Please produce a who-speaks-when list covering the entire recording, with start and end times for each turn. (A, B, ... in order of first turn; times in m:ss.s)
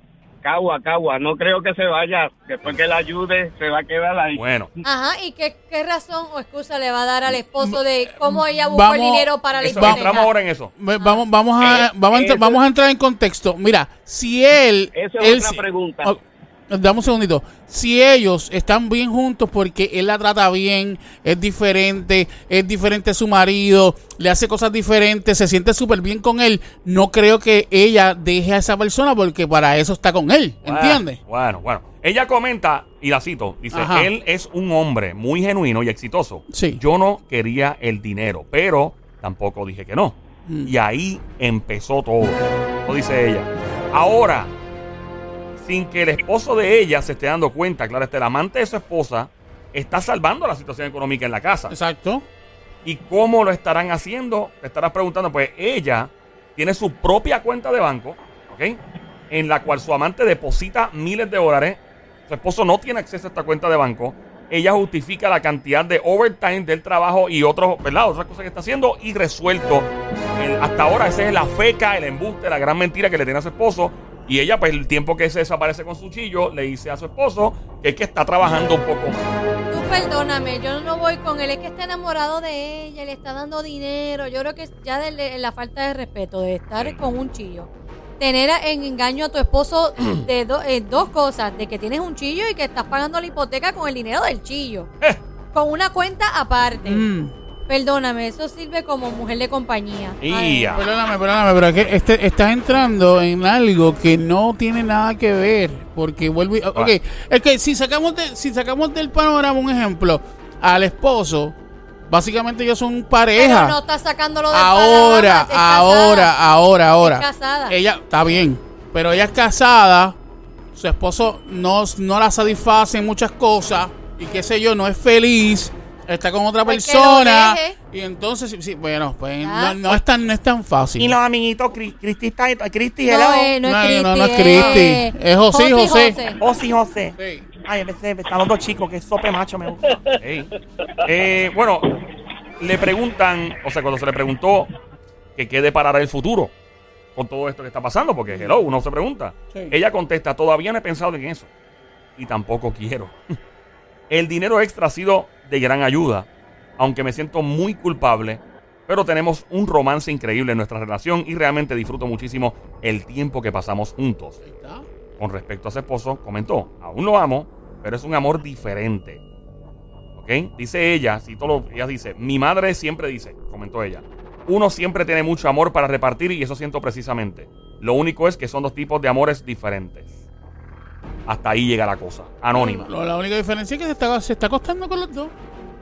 0:00.4-0:04.4 A
0:04.3-0:04.7 B
0:04.8-0:10.3 C
0:07.6-0:10.1 D
0:09.6-0:10.7 B
0:10.8-0:31.2 D
0:11.0-0:11.2 C
0:11.6-0:12.6 A
0:14.9-0:16.2 A
0:30.6-0:44.5 B
0:33.7-0:34.1 D
0:36.5-0:36.8 D
0:40.5-0:40.7 D
0:45.6-0:51.8 B
0:51.7-0:52.3 D
0:52.8-0:58.8 B
0:59.3-1:19.3 B
1:19.7-1:27.7 C
1:28.2-1:34.9 C
1:30.0-1:30.3 B
1:35.5-1:37.1 C
1:36.8-1:37.3 D
1:37.7-1:40.8 C
1:40.2-1:40.9 B
1:40.7-1:51.6 D
1:52.1-1:53.8 D
1:53.4-1:56.3 C
1:54.5-2:00.2 D
1:57.0-1:57.8 C
2:00.7-2:11.2 D
2:06.6-2:07.8 C
2:09.4-2:10.0 C
2:11.0-2:13.5 E
2:13.1-2:16.4 C
2:13.6-2:16.2 D
2:14.6-2:14.9 B
2:16.4-2:20.0 E
2:17.2-2:17.5 D
2:20.2-2:20.5 B
2:21.0-2:21.9 B
2:22.6-2:24.7 B
2:25.4-2:26.5 B
2:27.2-2:31.5 B
2:32.2-2:33.2 B
2:34.1-2:36.3 B
2:36.8-2:44.4 B
2:44.4-2:44.8 D
2:45.2-2:49.2 B
2:50.2-3:00.1 B
3:01.3-3:02.9 B
3:02.5-3:05.3 D